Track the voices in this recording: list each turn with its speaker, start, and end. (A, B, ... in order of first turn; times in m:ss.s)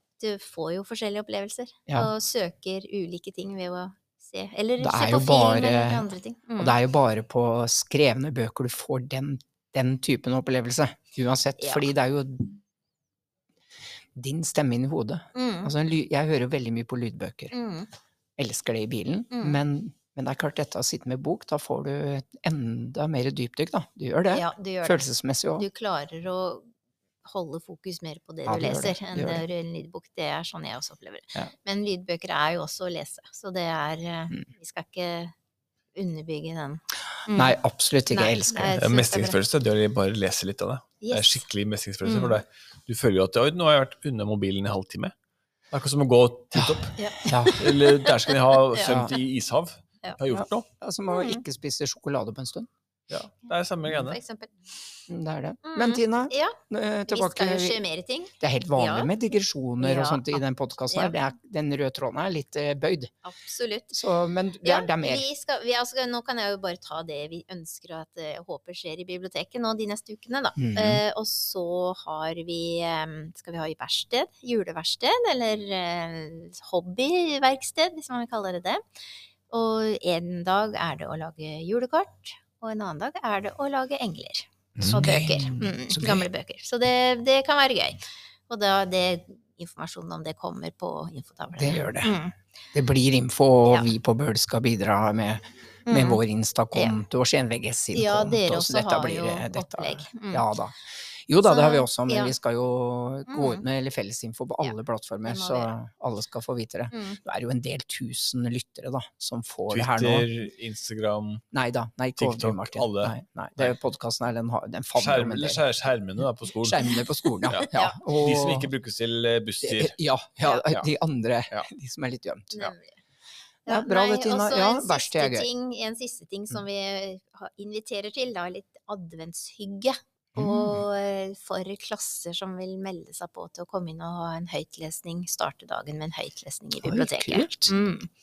0:00.2-0:06.8 A
0:04.8-0:12.6 B
0:11.6-0:11.9 A
0:14.1-0:17.5 B
0:15.3-0:15.7 A
0:17.5-0:17.9 A
0:18.4-0:25.6 B
0:19.3-0:19.6 A
0:24.3-0:26.7 A
0:27.2-0:35.3 A
0:28.4-0:29.4 B
0:35.9-0:37.6 A
0:37.3-0:38.8 B
0:38.1-0:39.4 A
0:38.7-0:45.1 C
0:41.0-0:41.4 A
0:42.0-0:42.4 A
0:45.7-0:47.0 C
0:46.5-0:47.7 B
0:47.0-0:48.9 A
0:47.5-0:50.7 C
0:48.8-0:49.1 B
0:50.3-0:52.7 B
0:51.1-0:51.4 A
0:53.1-0:54.2 C
0:54.0-0:54.5 A
0:55.1-0:57.8 B
0:55.6-0:59.1 A
0:58.4-1:03.1 B
0:59.8-1:01.2 A
1:03.2-1:04.0 A
1:03.9-1:05.2 B
1:04.6-1:18.8 A
1:10.6-1:11.0 B
1:19.5-1:32.3 A
1:24.8-1:25.0 C
1:24.9-1:26.2 B
1:31.6-1:32.2 B
1:32.7-1:40.8 B
1:33.6-1:33.9 A
1:35.9-1:36.2 A
1:36.7-1:37.0 A
1:37.9-1:40.4 A
1:41.3-1:50.3 B
1:41.4-1:42.3 A
1:43.3-1:43.6 A
1:44.6-1:45.7 A
1:46.9-1:47.2 A
1:49.7-1:51.4 C
1:51.5-1:55.6 B
1:52.2-1:53.7 C
1:54.9-1:56.9 C
1:56.5-1:58.7 B
1:57.5-1:59.9 C
1:57.7-1:58.0 A
1:59.6-2:02.7 B
2:02.5-2:03.0 A
2:03.6-2:18.1 A
2:03.7-2:05.5 B
2:10.3-2:10.8 B
2:16.8-2:17.7 B